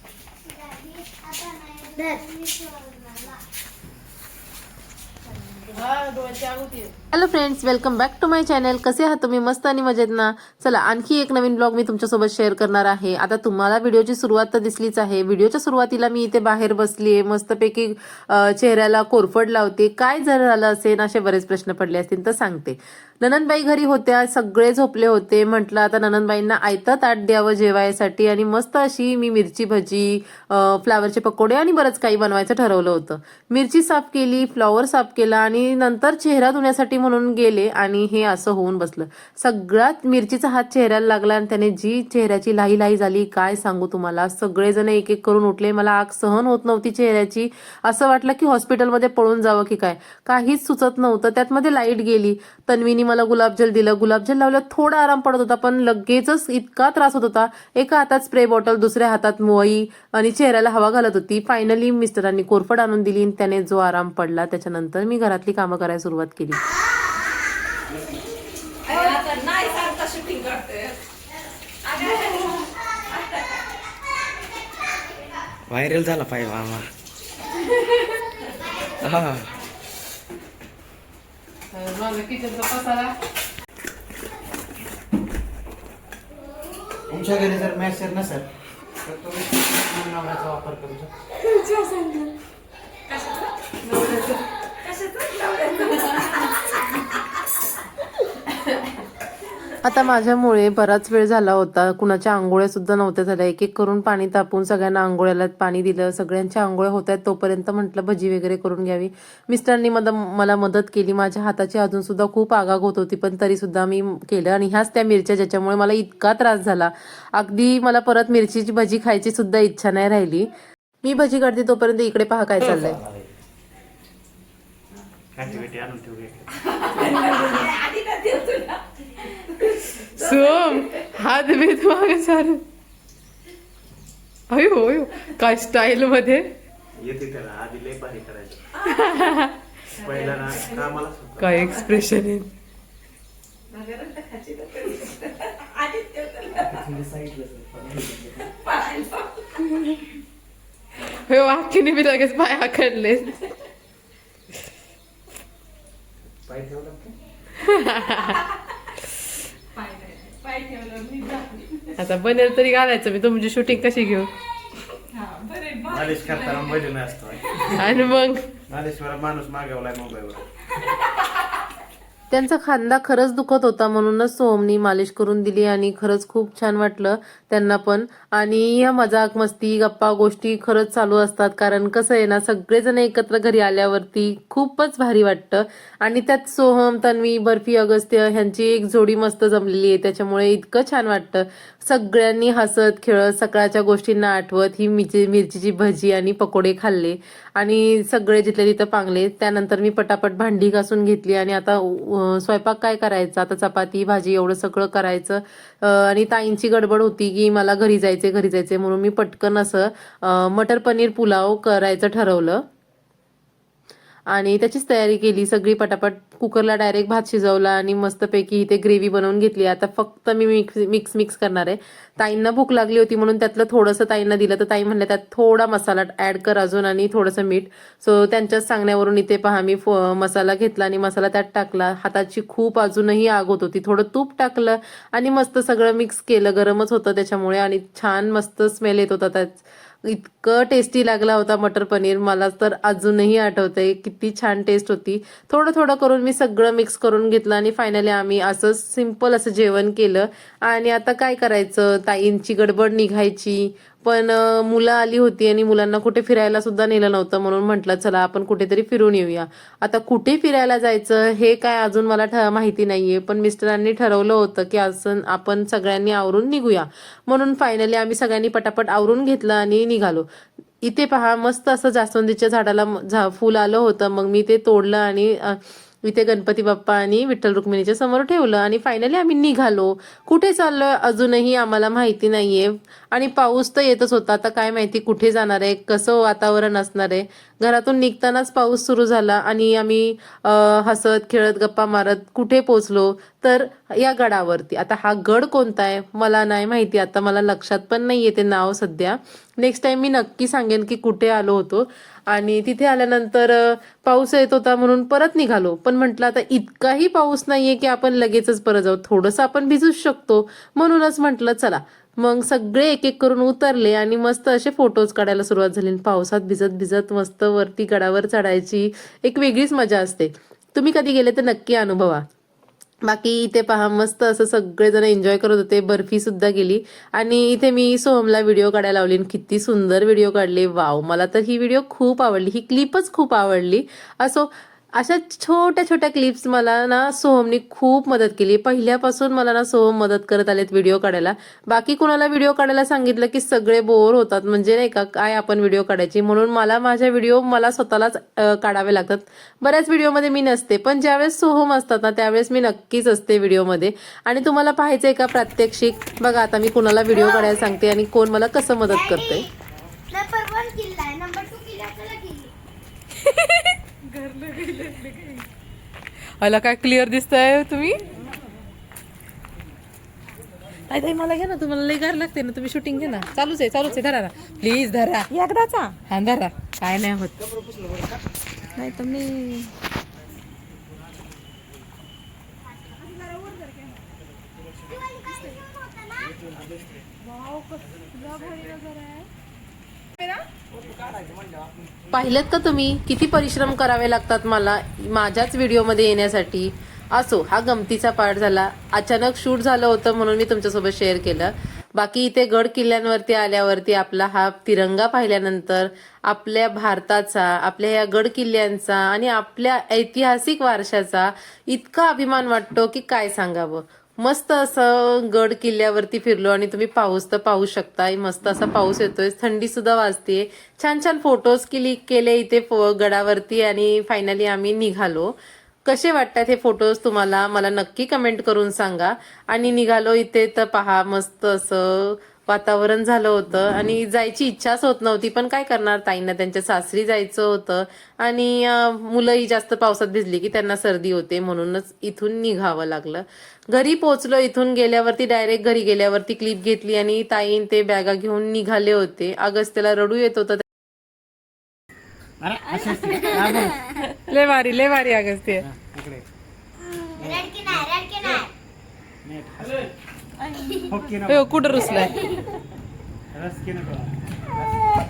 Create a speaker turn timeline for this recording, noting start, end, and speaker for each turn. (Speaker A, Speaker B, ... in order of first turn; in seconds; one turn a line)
Speaker A: 0.5-3.4
Speaker B: 5.6-66.6
Speaker C: 68.9-71.0
Speaker C: 71.8-72.7
Speaker D: 75.7-76.9
Speaker D: 79.0-79.5
Speaker B: 81.7-83.2
Speaker D: 87.1-88.5
Speaker D: 89.0-91.1
Speaker B: 91.5-92.3
Speaker C: 93.1-93.5
Speaker B: 93.8-94.4
Speaker C: 94.8-96.5
Speaker B: 99.8-120.5
Speaker B: 121.0-123.0
Speaker D: 122.6-123.3
Speaker D: 125.3-126.5
Speaker C: 126.9-129.4
Speaker B: 130.1-132.6
Speaker B: 134.5-136.5
Speaker D: 137.0-138.6
Speaker B: 138.8-139.5
Speaker D: 139.9-141.8
Speaker C: 140.0-140.8
Speaker B: 141.4-142.5
Speaker C: 143.7-146.8
Speaker D: 146.6-148.5
Speaker C: 148.5-149.6
Speaker B: 151.1-153.4
Speaker D: 156.5-157.2
Speaker B: 157.6-158.4
Speaker C: 159.8-161.9
Speaker B: 162.0-164.3
Speaker C: 165.1-166.7
Speaker D: 165.9-168.0
Speaker B: 167.7-168.5
Speaker D: 168.7-170.4
Speaker B: 172.3-212.7
Speaker B: 214.3-270.2
Speaker B: 270.8-322.2
Speaker B: 323.0-359.5
Speaker A: 357.1-357.6
Speaker A: 358.9-359.5
Speaker A: 360.1-362.5
Speaker B: 363.2-365.4
Speaker B: 366.4-368.0
Speaker B: 370.9-375.3
Speaker C: 375.3-375.9
Speaker B: 376.1-377.4
Speaker C: 378.8-379.7
Speaker A: 384.9-386.4
Speaker D: 386.4-386.7
Speaker C: 387.4-389.3
Speaker B: 392.1-450.6
Speaker D: 452.4-453.9
Speaker B: 454.2-455.7
Speaker D: 455.7-456.2
Speaker A: 457.2-458.5
Speaker D: 457.2-457.9
Speaker D: 459.2-459.9
Speaker D: 460.7-462.1
Speaker B: 461.3-462.2
Speaker D: 463.3-464.7